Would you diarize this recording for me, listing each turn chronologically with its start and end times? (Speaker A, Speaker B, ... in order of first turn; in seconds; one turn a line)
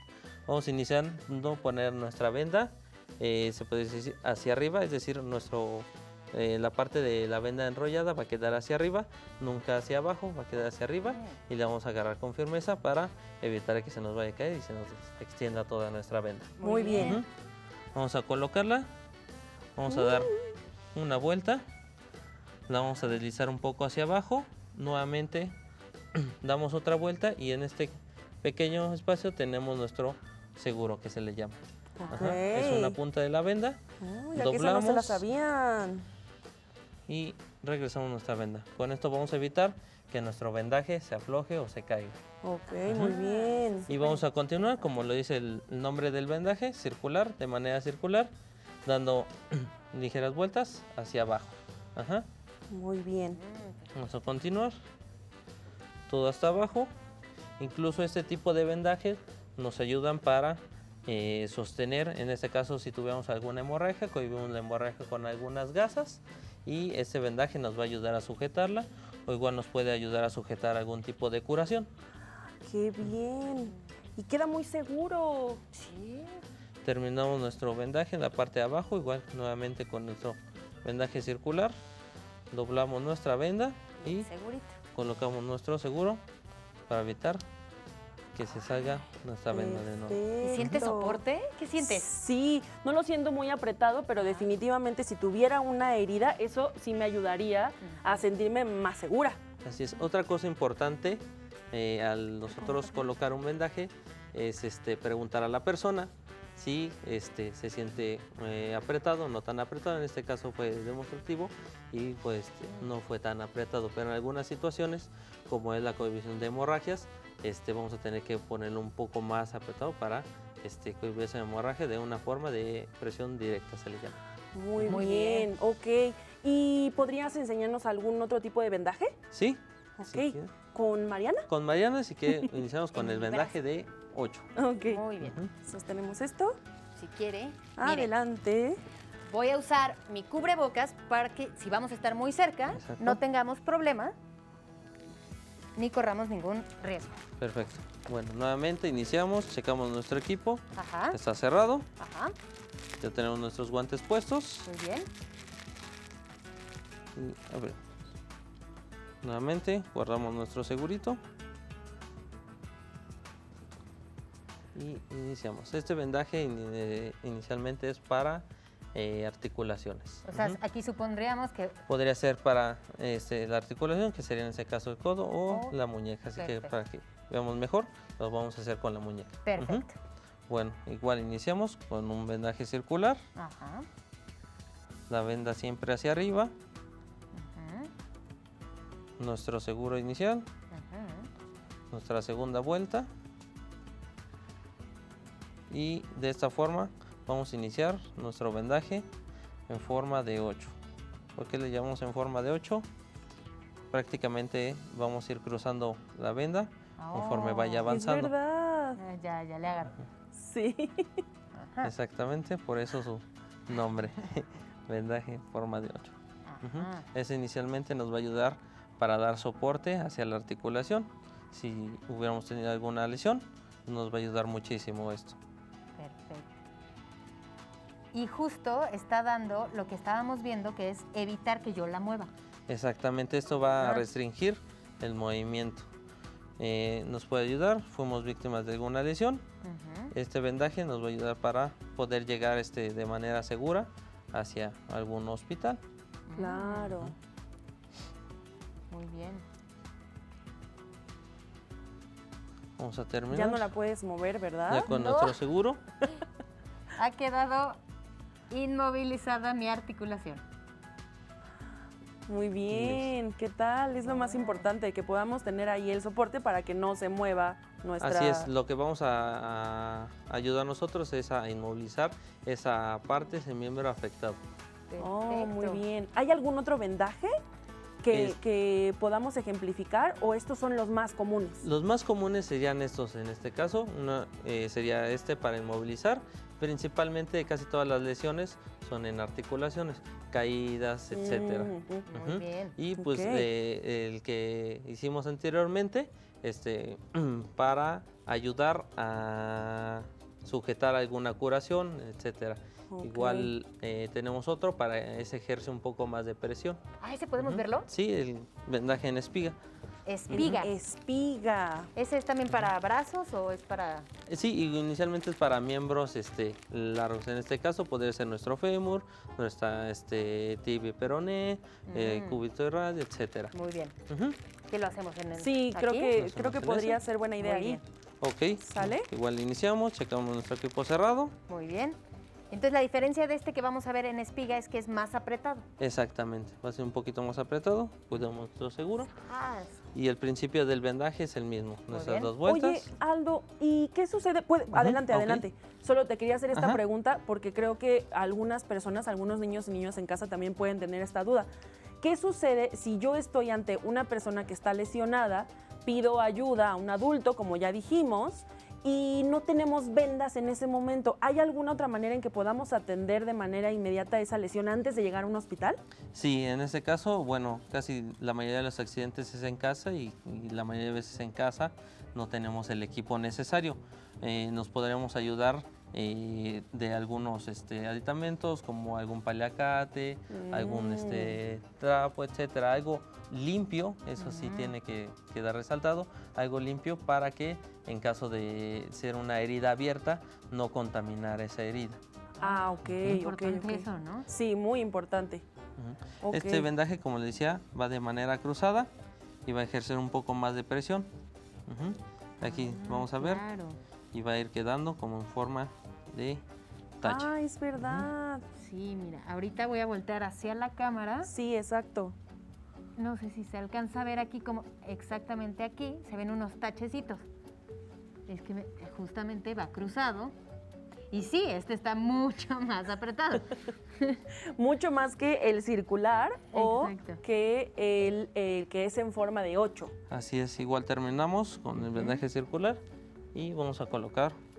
Speaker A: 0.5-17.3
Speaker B: 11.1-11.4
Speaker B: 16.6-17.2
Speaker C: 16.6-17.2
Speaker A: 17.9-18.9
Speaker A: 19.8-20.3
Speaker C: 19.9-20.4
Speaker A: 20.9-21.7
Speaker A: 22.7-25.6
Speaker A: 26.1-31.6
Speaker B: 32.0-32.2
Speaker C: 32.0-33.0
Speaker A: 32.1-33.8
Speaker C: 34.0-36.1
Speaker A: 34.3-35.2
Speaker A: 37.1-42.2
Speaker C: 42.4-44.0
Speaker B: 42.7-44.2
Speaker A: 43.9-48.3
Speaker A: 48.9-52.3
Speaker C: 52.7-53.4
Speaker B: 53.3-53.9
Speaker A: 53.9-54.8
Speaker A: 56.1-56.9
Speaker A: 57.6-71.9
Speaker C: 72.6-75.6
Speaker B: 75.7-76.4
Speaker A: 76.8-81.8
Speaker A: 82.5-84.3
Speaker B: 84.0-84.8
Speaker A: 84.9-86.2
Speaker A: 86.9-87.4
Speaker A: 88.3-90.8
Speaker C: 89.5-91.2
Speaker B: 90.4-92.1
Speaker C: 91.8-99.4
Speaker B: 94.2-94.5
Speaker B: 97.8-98.2
Speaker A: 99.6-124.2
Speaker C: 124.5-129.2
Speaker A: 124.8-125.0
Speaker B: 124.9-125.5
Speaker A: 129.3-130.5
Speaker C: 130.0-131.5
Speaker A: 131.5-134.5
Speaker B: 132.9-133.6
Speaker C: 134.6-135.0
Speaker B: 134.9-135.4
Speaker A: 135.2-135.5
Speaker C: 135.6-136.6
Speaker B: 137.0-138.1
Speaker C: 137.8-138.8
Speaker B: 139.3-144.2
Speaker A: 142.7-143.2
Speaker B: 145.8-147.2
Speaker A: 147.4-151.9
Speaker B: 150.8-151.2
Speaker B: 152.0-152.3
Speaker A: 153.0-154.7
Speaker B: 154.7-155.1
Speaker A: 157.2-157.8
Speaker A: 159.2-161.2
Speaker A: 164.7-170.6
Speaker B: 170.3-171.8
Speaker A: 171.9-179.9
Speaker B: 175.5-175.8
Speaker B: 176.4-176.7
Speaker B: 179.4-179.9
Speaker A: 180.5-183.2
Speaker B: 183.4-183.9
Speaker A: 185.1-186.5
Speaker B: 187.3-187.9
Speaker A: 189.2-190.5
Speaker B: 190.7-191.3
Speaker A: 191.9-193.1
Speaker A: 195.7-199.1
Speaker A: 199.7-200.8
Speaker A: 201.4-202.9
Speaker A: 203.9-208.3
Speaker B: 207.0-207.9
Speaker C: 207.9-209.0
Speaker B: 209.0-210.0
Speaker C: 210.3-211.2
Speaker B: 211.6-211.9
Speaker A: 211.8-225.4
Speaker B: 216.4-217.1
Speaker B: 226.0-226.6
Speaker B: 228.1-232.3
Speaker A: 232.7-235.9
Speaker B: 233.8-234.1
Speaker A: 236.6-239.5
Speaker B: 239.6-240.1
Speaker A: 240.1-245.8
Speaker B: 246.3-247.0
Speaker C: 246.4-247.1
Speaker B: 248.9-249.4
Speaker A: 252.8-253.7
Speaker C: 253.3-254.9
Speaker A: 254.7-255.8
Speaker B: 254.8-255.3
Speaker B: 257.0-257.8
Speaker B: 258.5-260.4
Speaker C: 262.3-268.5
Speaker A: 262.7-263.1
Speaker B: 264.0-264.7
Speaker A: 268.0-274.4
Speaker B: 274.9-275.8
Speaker C: 275.0-277.4
Speaker C: 278.0-281.7
Speaker A: 278.1-278.4
Speaker A: 281.6-306.8
Speaker C: 291.1-292.1
Speaker B: 292.1-292.8
Speaker C: 293.0-293.5
Speaker C: 302.9-303.5
Speaker B: 307.0-307.9
Speaker A: 307.4-309.6
Speaker B: 310.1-310.7
Speaker A: 310.3-310.6
Speaker C: 310.3-311.9
Speaker B: 311.9-314.1
Speaker A: 314.3-323.5
Speaker B: 321.9-322.4
Speaker B: 323.5-324.0
Speaker A: 324.1-324.4
Speaker B: 324.7-326.1
Speaker C: 325.4-327.8
Speaker A: 326.2-327.0
Speaker B: 327.4-327.8
Speaker A: 328.2-331.4
Speaker C: 328.6-329.1
Speaker B: 331.5-332.0
Speaker B: 332.5-335.7
Speaker A: 335.8-339.1
Speaker B: 339.1-339.8
Speaker A: 339.9-342.9
Speaker B: 341.9-342.3
Speaker C: 342.4-351.5
Speaker A: 344.7-345.5
Speaker A: 346.5-346.8
Speaker C: 352.0-365.8
Speaker A: 366.1-392.0
Speaker C: 380.3-381.4
Speaker B: 384.2-384.8
Speaker B: 392.4-394.3
Speaker C: 392.4-395.4
Speaker A: 392.9-393.2
Speaker A: 395.8-398.9
Speaker C: 396.2-396.7
Speaker A: 399.5-401.1
Speaker A: 401.7-403.4
Speaker B: 402.4-403.8
Speaker A: 404.1-406.4
Speaker A: 407.0-408.1
Speaker C: 407.0-408.4
Speaker B: 408.6-411.3
Speaker C: 411.3-412.2
Speaker B: 413.0-417.2
Speaker B: 418.3-420.4
Speaker B: 421.1-424.2
Speaker C: 424.6-429.9
Speaker B: 426.5-427.2
Speaker A: 430.1-432.8
Speaker A: 433.3-434.4